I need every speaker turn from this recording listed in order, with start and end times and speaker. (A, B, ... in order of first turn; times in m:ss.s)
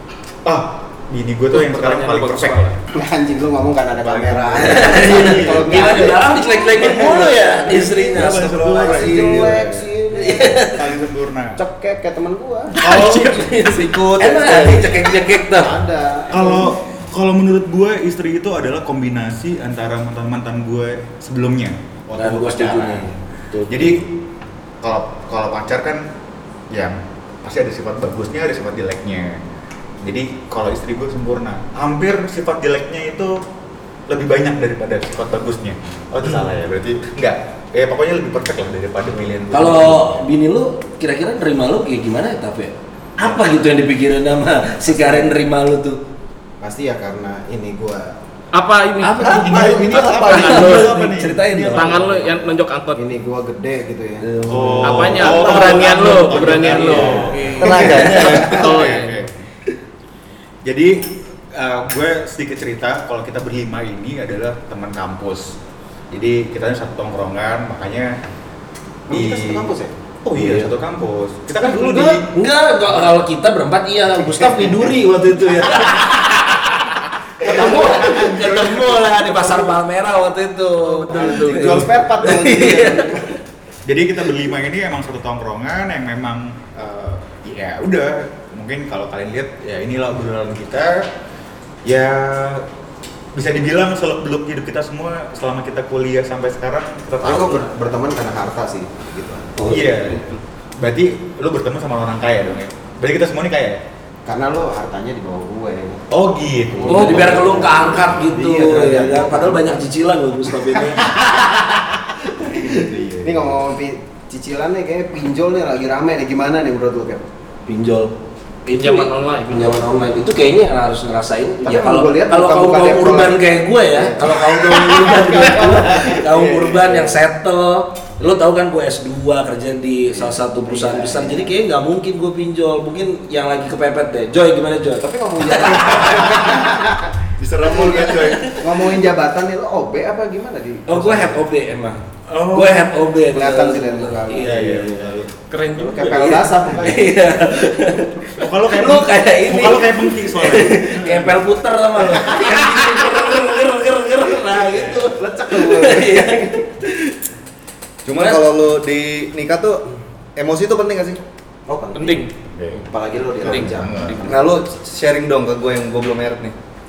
0:00.4-0:02.8 A
0:01.5-0:02.8 B
0:02.9-0:10.6 C
0:04.0-0:06.1 A
0:04.6-0:10.9 D
0:06.8-0:09.8 A
0:10.7-0:11.6 A
0:11.6-0:12.8 C
0:12.8-0:13.6 A
0:12.8-0:15.8 D
0:13.6-0:15.0 E
0:15.5-0:16.7 C
0:16.3-0:23.1 A
0:22.2-0:24.0 D
0:23.7-0:24.1 A
0:24.8-0:26.0 A
0:26.7-0:29.4 A
0:30.0-0:33.4 A
0:34.1-0:40.2 A
0:39.5-0:46.0 D
0:44.9-0:45.3 C
0:46.6-0:48.2 C
0:48.5-0:51.0 B
0:49.0-0:52.1 D
0:49.2-0:52.1 A
0:51.7-0:53.0 B
0:53.0-0:54.3 C
0:54.2-0:58.7 D
0:54.5-0:57.5 A
0:54.8-0:59.2 B
0:57.0-0:57.3 C
0:57.6-0:58.6 E
0:58.2-0:59.3 A
1:00.6-1:05.6 A
1:06.1-1:08.2 A
1:09.1-1:09.7 A
1:09.1-1:09.9 C
1:10.2-1:12.4 A
1:10.3-1:10.7 D
1:11.6-1:23.3 D
1:17.4-1:18.6 C
1:18.1-1:18.9 A
1:20.8-1:21.9 B
1:21.1-1:23.3 C
1:23.8-1:31.1 A
1:31.8-1:32.7 A
1:33.3-1:37.7 A
1:37.2-1:39.6 C
1:39.6-1:40.2 D
1:39.7-1:43.8 A
1:44.3-1:46.0 C
1:46.1-1:48.2 A
1:46.7-1:49.8 C
1:46.9-1:51.6 D
1:52.5-1:52.7 D
1:52.5-1:57.2 C
1:52.7-1:53.5 A
1:57.7-1:58.1 D
1:58.7-2:16.6 D
1:58.7-1:59.8 B
2:01.6-2:07.1 C
2:06.5-2:06.8 E
2:10.6-2:11.5 C
2:15.0-2:17.1 C
2:17.4-2:18.6 E
2:17.7-2:21.4 C
2:17.7-2:18.8 D
2:20.9-2:25.2 D
2:22.3-2:22.9 A
2:23.3-2:25.0 C
2:24.4-2:25.2 A
2:25.5-2:26.5 B
2:25.8-2:27.3 C
2:26.0-2:37.2 D
2:28.4-2:31.4 A
2:34.8-2:36.6 C
2:38.0-2:39.8 E
2:38.2-2:38.5 D
2:40.4-2:41.2 E
2:41.7-2:44.5 C
2:41.9-2:42.3 B
2:42.5-2:42.8 A
2:43.4-2:44.3 B
2:43.4-2:44.2 A
2:44.2-2:46.6 E